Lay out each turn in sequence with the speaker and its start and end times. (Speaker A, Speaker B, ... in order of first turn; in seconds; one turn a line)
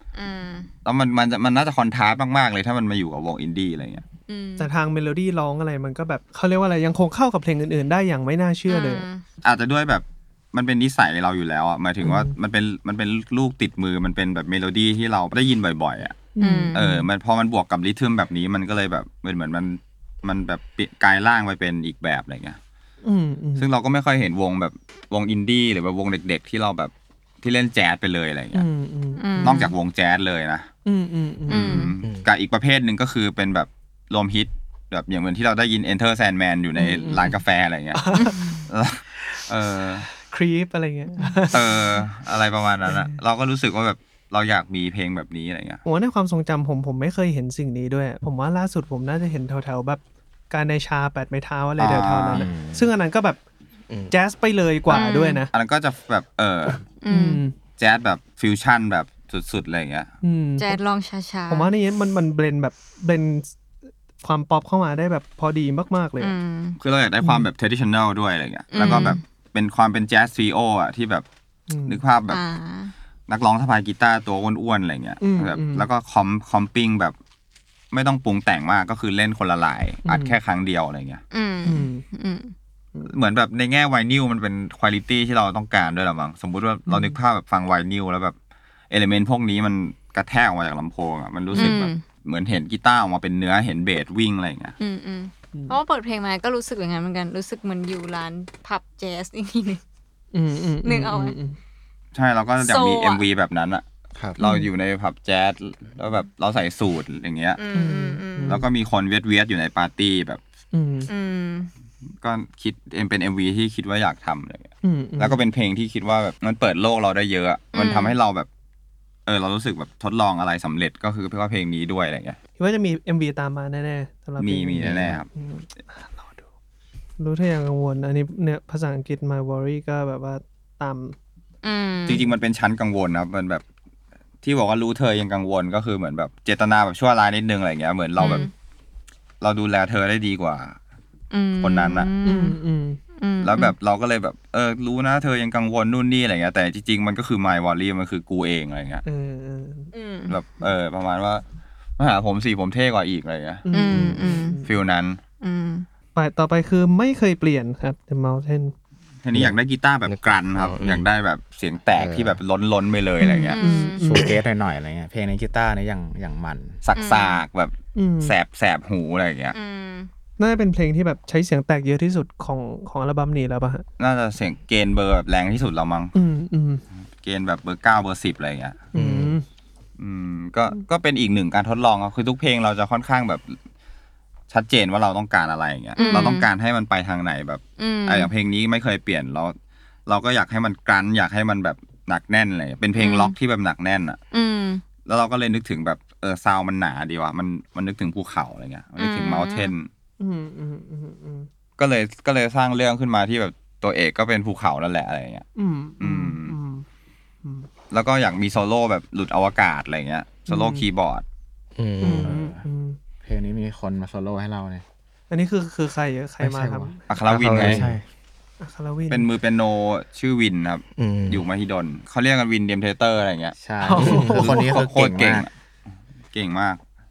Speaker A: 0.1-0.7
Speaker B: 0.8-4.0
Speaker A: 4.3-4.7
Speaker C: 4.6-9.1
Speaker A: 8.7-9.2
Speaker B: 9.4-16.2
Speaker C: 12.0-12.3
Speaker C: 16.4-17.1
Speaker A: 16.4-16.8
Speaker B: 16.7-22.6
Speaker C: 23.0-23.7
Speaker B: 23.6-28.6
Speaker C: 28.5-29.7
Speaker A: 29.2-29.7
Speaker B: 29.4-30.7
Speaker C: 30.9-31.9
Speaker A: 31.5-31.9
Speaker B: 31.5-38.1
Speaker C: 36.8-37.4
Speaker C: 37.9-38.6
Speaker A: 38.1-38.6
Speaker B: 38.7-40.0
Speaker C: 39.2-42.0
Speaker B: 41.5-45.8
Speaker C: 42.9-43.2
Speaker C: 45.8-53.4
Speaker B: 51.8-52.5
Speaker D: 52.3-52.9
Speaker C: 54.1-55.5
Speaker A: 54.9-55.4
Speaker B: 55.5-56.8
Speaker A: 57.0-57.4
Speaker C: 57.1-57.5
Speaker B: 57.8-60.1
Speaker C: 60.2-60.8
Speaker A: 60.6-61.7
Speaker C: 61.5-63.5
Speaker C: 64.2-66.3
Speaker A: 66.2-66.8
Speaker B: 66.8-71.2
Speaker C: 67.2-67.5
Speaker A: 68.7-69.2
Speaker C: 71.7-72.0
Speaker B: 71.9-72.4
Speaker A: 72.3-72.9
Speaker B: 73.3-77.2
Speaker C: 75.2-75.8
Speaker B: 77.9-81.2
Speaker C: 80.0-80.4
Speaker A: 81.3-82.5
Speaker C: 81.6-82.0
Speaker B: 83.1-88.3
Speaker C: 86.9-87.2
Speaker B: 88.9-94.8
Speaker A: 91.5-92.0
Speaker A: 94.8-99.8
Speaker C: 95.5-95.8
Speaker C: 100.3-101.6
Speaker A: 100.8-101.3
Speaker B: 102.1-103.8
Speaker A: 102.6-103.2
Speaker B: 104.4-107.6
Speaker A: 104.4-104.7
Speaker A: 107.6-108.6
Speaker C: 107.7-108.7
Speaker B: 108.5-110.4
Speaker C: 110.7-111.1
Speaker A: 111.1-111.7
Speaker B: 112.2-118.5
Speaker C: 114.8-115.4
Speaker A: 117.7-118.2
Speaker B: 119.2-122.4
Speaker C: 122.6-126.5
Speaker B: 124.4-125.3
Speaker E: 124.8-125.1
Speaker C: 127.2-131.2
Speaker A: 131.6-132.2
Speaker B: 132.1-133.6
Speaker B: 134.4-138.5
Speaker A: 138.2-138.5
Speaker B: 139.4-140.8
Speaker A: 141.3-142.6
Speaker B: 141.6-142.1
Speaker C: 142.2-143.0
Speaker A: 143.2-143.7
Speaker B: 143.4-149.0
Speaker C: 149.0-149.9
Speaker A: 149.9-150.3
Speaker B: 150.3-151.4
Speaker B: 152.0-153.6
Speaker C: 153.6-154.7
Speaker A: 153.7-154.6
Speaker B: 154.6-155.2
Speaker A: 155.4-155.8
Speaker C: 156.1-158.7
Speaker B: 159.2-163.6
Speaker E: 160.1-161.1
Speaker E: 161.9-162.4
Speaker C: 163.2-164.4
Speaker A: 163.4-164.1
Speaker D: 164.0-166.8
Speaker B: 166.8-169.5
Speaker A: 166.9-167.4
Speaker C: 167.9-168.3
Speaker A: 169.5-170.1
Speaker C: 170.4-173.8
Speaker B: 174.0-176.1
Speaker C: 176.1-176.8
Speaker B: 177.2-178.8
Speaker C: 178.9-179.4
Speaker E: 178.9-179.3
Speaker B: 180.0-183.6
Speaker B: 184.5-189.6
Speaker A: 185.9-186.5
Speaker C: 186.0-186.3
Speaker A: 187.8-188.3
Speaker B: 190.1-194.2
Speaker A: 192.9-193.3
Speaker A: 194.3-194.8
Speaker B: 195.0-199.9
Speaker A: 199.0-199.7
Speaker C: 200.2-201.5
Speaker B: 201.8-205.4
Speaker C: 205.6-206.8
Speaker B: 206.0-206.6
Speaker B: 207.9-211.2
Speaker C: 210.5-210.8
Speaker E: 211.8-212.3
Speaker C: 212.0-213.0
Speaker D: 212.1-212.6
Speaker D: 213.2-214.8
Speaker C: 215.3-217.0
Speaker D: 216.4-216.9
Speaker B: 217.1-217.9
Speaker E: 217.3-217.9
Speaker D: 217.5-218.0
Speaker C: 218.6-219.3
Speaker B: 219.1-223.6
Speaker E: 221.0-221.4
Speaker D: 223.6-225.5
Speaker C: 223.8-224.8
Speaker E: 223.9-224.4
Speaker B: 224.3-225.5
Speaker B: 226.3-226.8